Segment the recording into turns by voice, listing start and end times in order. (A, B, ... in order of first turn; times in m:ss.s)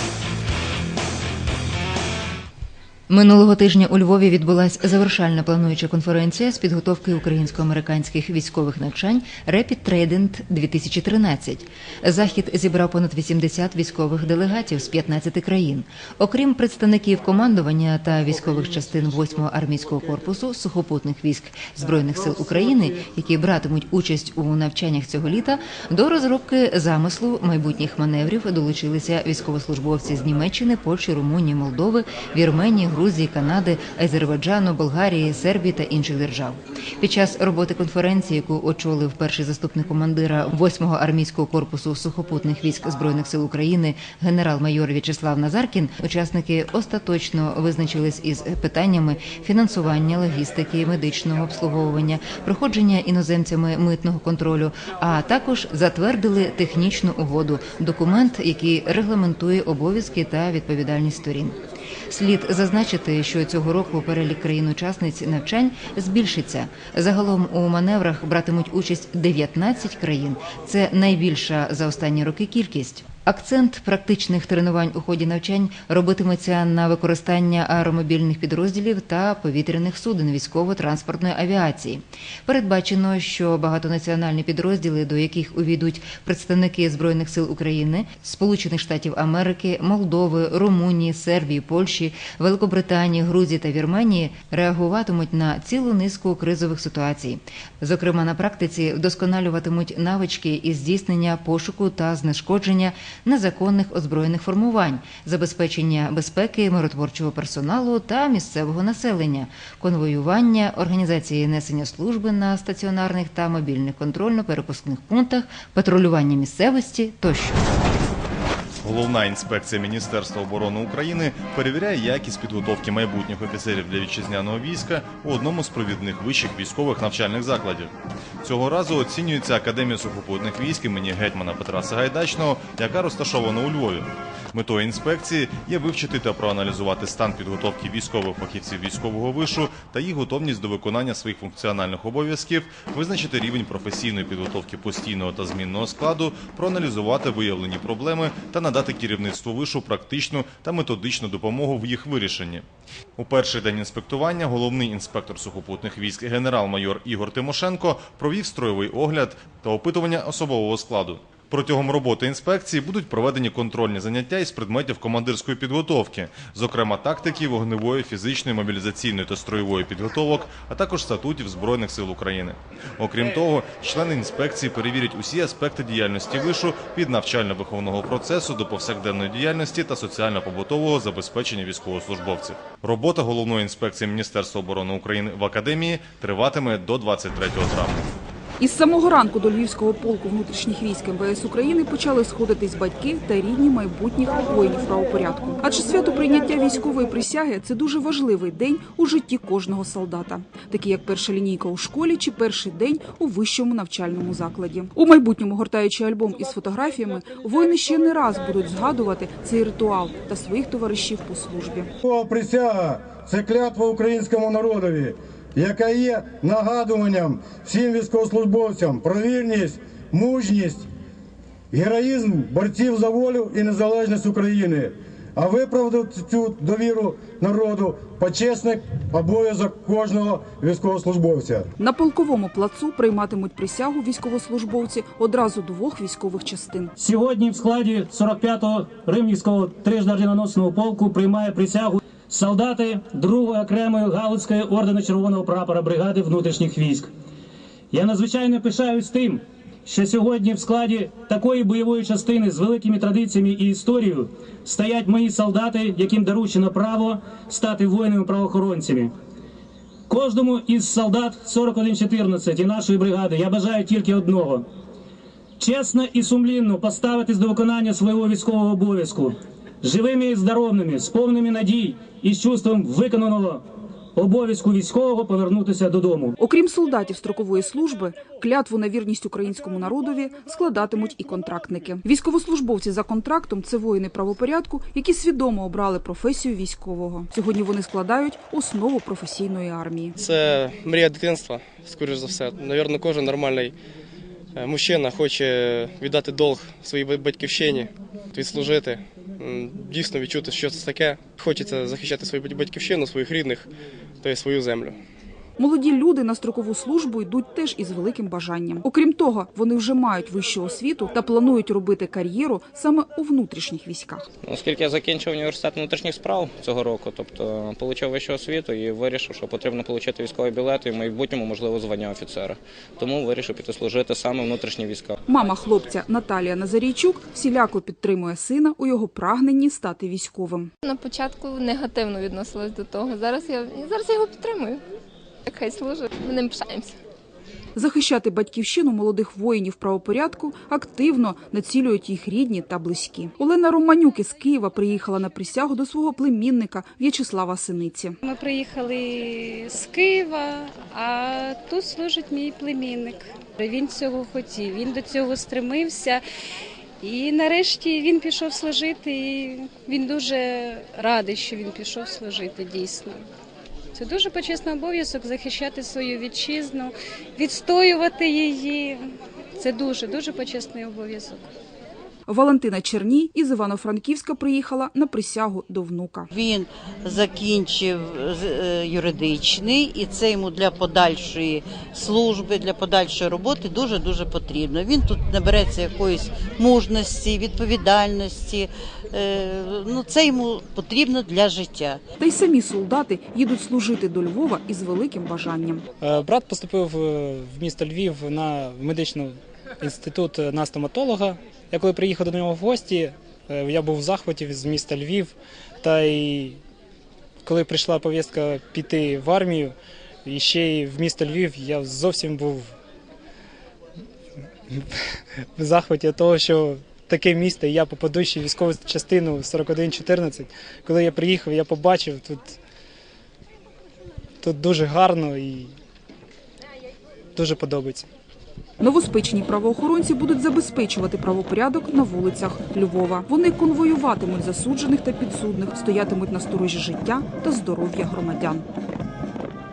0:03.1-1:01.6 A
1:02.1-1:57.6 A
1:58.8-2:07.9 B
2:08.4-2:32.7 B
2:33.2-3:08.1 B
3:08.6-3:31.9 C
3:32.0-3:40.9 D
3:41.7-3:51.7 D
3:51.8-3:56.9 C
3:57.0-4:07.1 E
4:07.9-4:19.1 E
4:20.1-4:24.7 E
4:25.6-4:36.3 E
4:36.4-4:50.2 C
4:50.2-4:53.8 F
4:54.6-5:03.7 F
5:04.2-5:05.0 F
5:05.6-5:14.3 C
5:14.4-5:25.2 G
5:25.3-5:30.7 C
5:30.8-5:34.8 H
5:35.5-5:37.0 H
5:37.8-5:48.2 C
5:48.2-5:56.2 I
5:57.0-6:03.2 I
6:03.9-6:11.5 I
6:12.3-6:16.3 C
6:16.3-6:32.0 J
6:32.2-6:35.8 C
6:36.0-6:46.6 K
6:47.4-6:52.7 K
6:54.7-6:55.0 K
6:55.6-7:02.6 K
7:04.4-7:05.8 K
7:07.4-7:08.1 K
7:08.8-7:18.7 C